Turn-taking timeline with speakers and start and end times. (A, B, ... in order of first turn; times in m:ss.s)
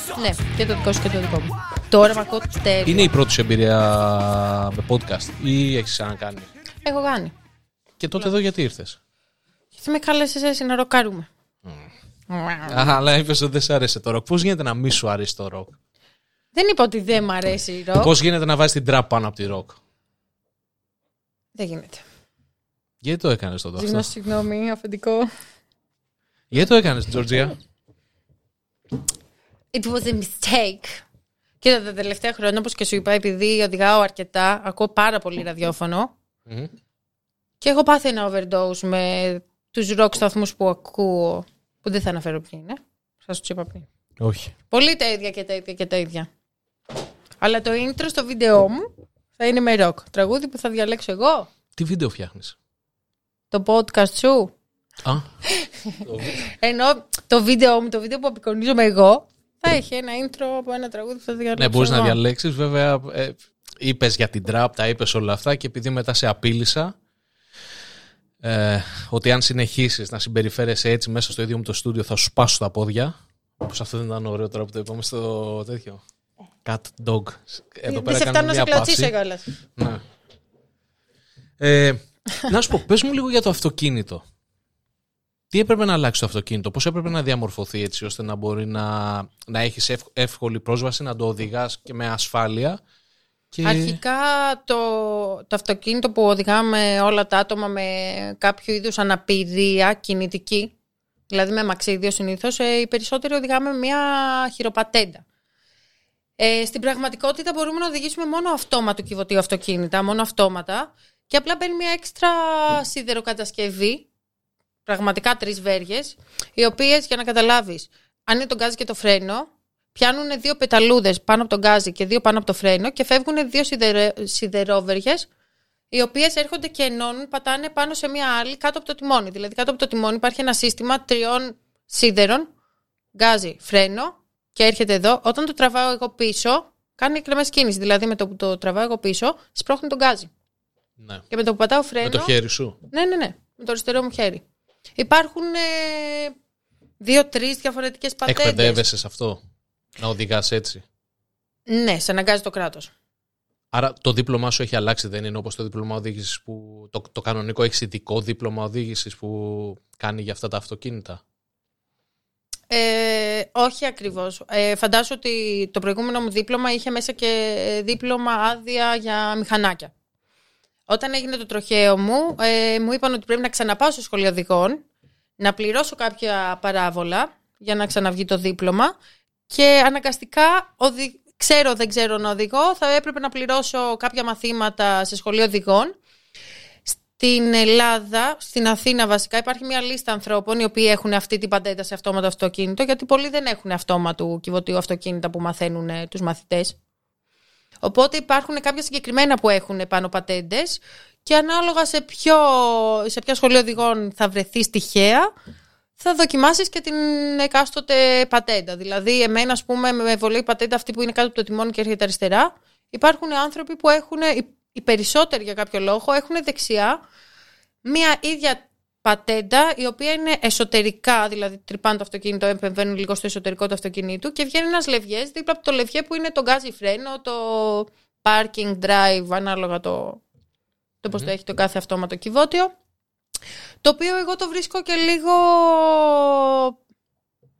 0:00.1-0:03.1 A
0:02.8-0:06.5 B
0:06.8-0:07.3 A
0:08.0-0:09.0 B
0:09.8-0:11.3 A
0:12.3-0:12.9 A
0:12.7-0:15.8 B
0:16.5-0:18.1 A
0:18.0-0:19.8 B
0:21.6-0:22.0 A
0:23.0-0:24.1 B
0:23.8-0:25.3 A
0:26.5-0:27.6 B
0:29.7-0:31.0 A
0:31.6-0:36.1 A
0:37.6-0:43.9 A
0:44.2-0:44.5 B
0:44.7-0:46.3 A
0:47.4-0:51.5 A
0:51.8-0:52.6 B
0:53.5-0:54.5 A
0:55.5-1:02.2 A
0:56.0-0:56.5 B
1:01.6-1:07.0 B
1:08.4-1:16.0 B
1:16.6-1:19.1 B
1:17.9-1:19.5 A
1:19.8-1:20.0 B
1:21.6-1:24.2 B
1:25.5-1:32.8 B
1:33.5-1:34.0 B
1:33.6-1:40.7 A
1:41.3-1:45.2 A
1:46.4-1:54.1 A
1:54.9-2:05.3 A
2:05.9-2:12.5 A
2:13.2-2:20.3 A
2:21.0-2:21.2 B
2:21.3-2:22.3 A
2:22.0-2:22.8 B
2:22.9-2:24.4 A
2:25.0-2:26.3 A
2:27.0-2:28.8 A
2:28.3-2:29.4 B
2:30.0-2:30.8 B
2:31.7-2:32.9 A
2:33.7-2:41.2 B
2:42.7-2:49.9 A
2:50.9-2:54.8 A
2:55.4-2:58.9 A
2:59.5-3:05.9 A
3:06.9-3:16.8 A
3:17.8-3:25.3 A
3:26.0-3:37.0 A
3:37.8-3:50.2 A
3:51.0-3:52.7 A
3:53.8-3:56.8 A